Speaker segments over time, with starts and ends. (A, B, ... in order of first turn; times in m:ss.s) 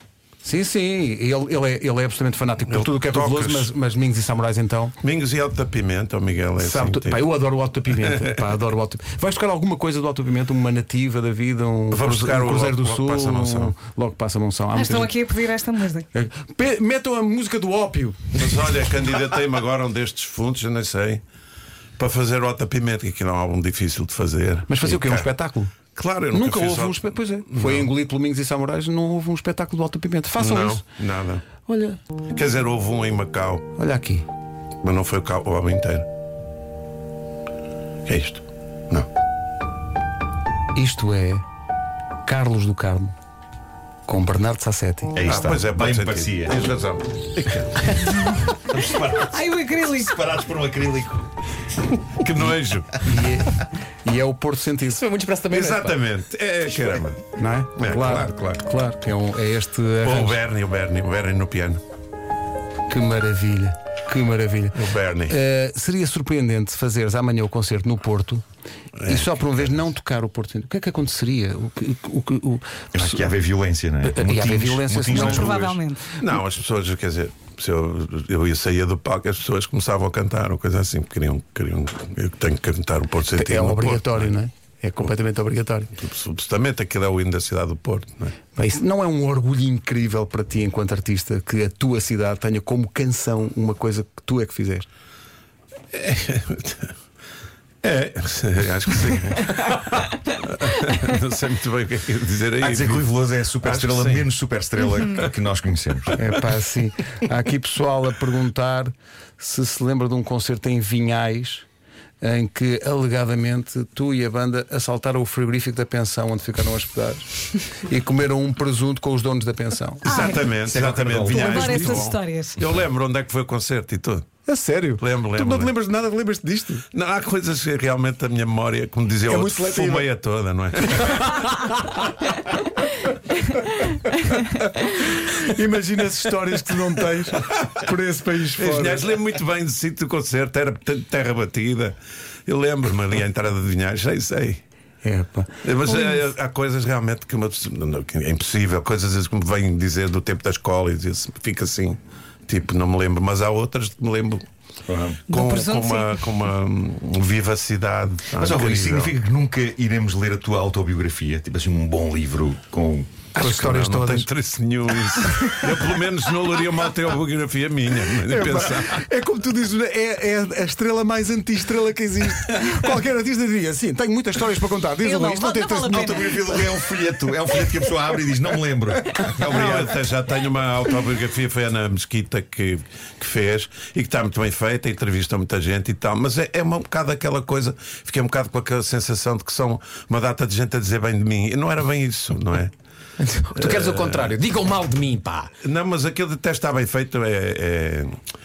0:00.4-0:05.0 A
0:02.7-0:03.7 B
0:05.0-0:07.2 B
0:06.6-0:15.2 A
0:08.0-0:08.4 B
0:11.9-0:13.7 B
0:14.8-0:16.0 C
0:16.1-0:18.4 A
0:18.3-0:21.2 B
0:22.0-0:25.3 B
0:24.7-0:25.8 A
0:25.9-0:27.9 B
0:26.3-0:30.8 A
0:30.4-0:31.4 B
0:31.6-0:32.0 A
0:32.3-0:33.7 B
0:33.8-0:34.2 A
0:34.8-0:36.0 B
0:38.1-0:39.1 B
0:40.7-0:41.4 A
0:42.2-0:43.1 A
0:44.1-0:45.6 A
0:45.1-0:46.6 D
0:45.2-0:48.4 B
0:48.5-0:51.3 D
0:49.3-0:49.9 E
0:52.0-0:53.3 B
0:53.0-0:55.0 A
0:55.0-0:56.0 E
0:55.5-0:57.2 B
0:57.4-1:00.4 A
0:57.8-0:58.6 B
1:00.0-1:01.8 B
1:02.9-1:08.4 A
1:04.7-1:05.4 B
1:09.0-1:09.3 B
1:09.0-1:13.3 A
1:12.9-1:15.8 D
1:14.0-1:15.6 A
1:15.1-1:15.6 B
1:15.6-1:16.0 C
1:16.1-1:24.3 B
1:23.3-1:25.9 A
1:26.0-1:28.3 B
1:28.5-1:34.9 A
1:35.9-1:36.9 B
1:37.8-1:44.3 B
1:42.6-1:46.2 D
1:46.2-1:51.7 A
1:52.2-2:00.3 A
2:00.0-2:04.3 B
2:00.6-2:02.1 D
2:01.7-2:02.5 C
2:04.4-2:06.8 A
2:05.0-2:05.7 B
2:06.9-2:11.5 B
2:09.2-2:10.1 A
2:11.0-2:11.8 A
2:14.5-2:19.1 A
2:18.6-2:22.0 B
2:22.5-2:24.6 B
2:25.0-2:25.5 A
2:25.6-2:34.4 B
2:34.9-2:35.2 D
2:35.3-2:39.1 B
2:35.3-2:36.1 C
2:38.3-2:43.1 D
2:43.3-2:49.0 B
2:43.4-2:44.3 A
2:48.2-2:56.7 A
2:55.0-2:55.8 C
2:55.9-2:59.9 D
2:59.4-3:12.7 B
3:13.2-3:15.5 E
3:13.5-3:14.4 B
3:15.6-3:18.2 B